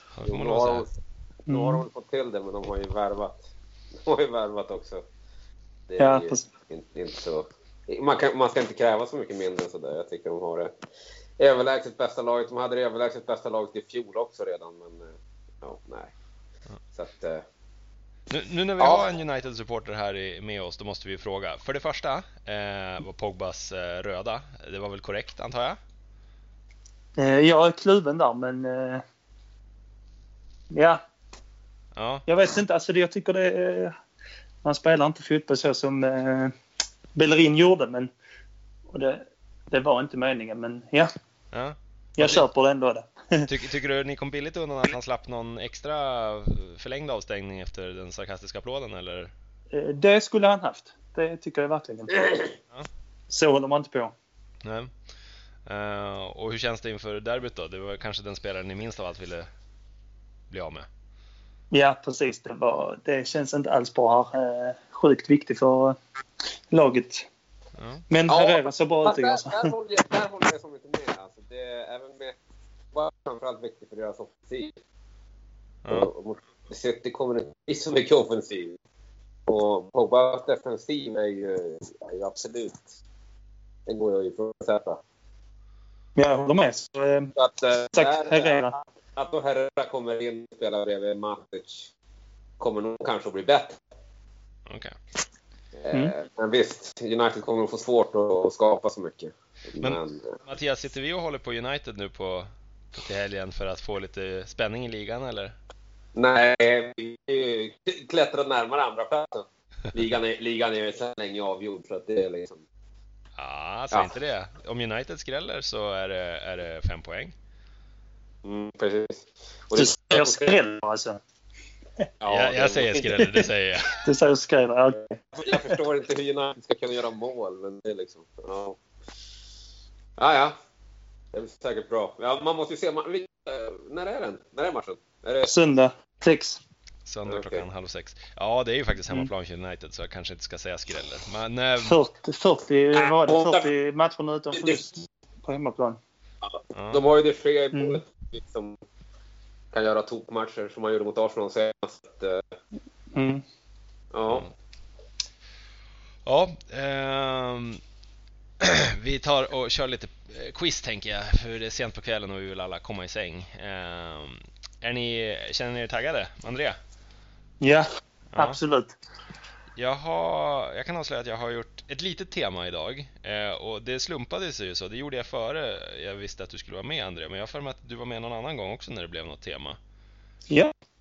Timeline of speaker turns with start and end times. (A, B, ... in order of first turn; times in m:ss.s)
0:00.1-0:00.8 A
0:00.2-0:00.9 B
0:01.5-0:01.8 C
0:01.5-0:03.4 B
0:04.0-0:05.0 B
0:05.9-0:10.7 B
0:06.0-0:06.5 C
0:11.4-0:16.1 B
0:16.9-0:17.4 B
0:18.3-0:25.8 A
0:18.8-0:19.1 B
0:27.2-0:29.0 C
0:30.7-0:31.0 C
0:32.0-0:32.2 A
0:32.3-0:33.9 C
0:34.6-0:36.5 C
0:37.2-0:38.1 C
0:38.9-0:41.1 C
0:41.5-0:42.4 A
0:42.2-0:43.5 C
0:43.5-0:49.3 A
0:49.7-0:52.5 C
0:53.3-0:54.1 C
0:54.6-0:54.9 A
0:55.7-0:59.5 A
1:00.5-1:00.9 A
1:01.7-1:06.0 C
1:06.7-1:07.3 C
1:07.8-1:08.0 A
1:08.1-1:09.7 C
1:08.3-1:12.4 B
1:12.9-1:14.7 B
1:15.8-1:16.1 A
1:15.9-1:18.8 B
1:19.5-1:23.0 B
1:23.9-1:25.0 B
1:26.2-1:27.3 C
1:27.4-1:28.6 B
1:27.9-1:28.8 C
1:29.2-1:31.9 B
1:32.6-1:33.8 B
1:34.7-1:35.0 A
1:35.8-1:40.4 B
1:39.8-1:45.6 A
1:46.2-1:52.6 B
1:53.4-1:57.3 A
1:58.4-2:00.5 B
1:59.8-2:01.2 C
2:02.2-2:03.1 B
2:02.3-2:04.0 A
2:04.0-2:05.7 C
2:05.3-2:08.8 B
2:10.2-2:10.5 B
2:11.3-2:15.5 B
2:15.4-2:16.6 C
2:17.1-2:22.0 A
2:17.2-2:17.7 B
2:21.8-2:26.0 C
2:23.0-2:23.7 B
2:24.5-2:24.8 B
2:26.7-2:27.1 A
2:26.9-2:28.8 B
2:27.7-2:28.0 C
2:29.7-2:32.4 B
2:33.1-2:33.4 C
2:34.1-2:34.5 B
2:36.2-2:37.8 A
2:38.6-2:46.8 A
2:47.6-2:49.0 C
2:48.3-2:48.6 A
2:49.8-2:59.8 A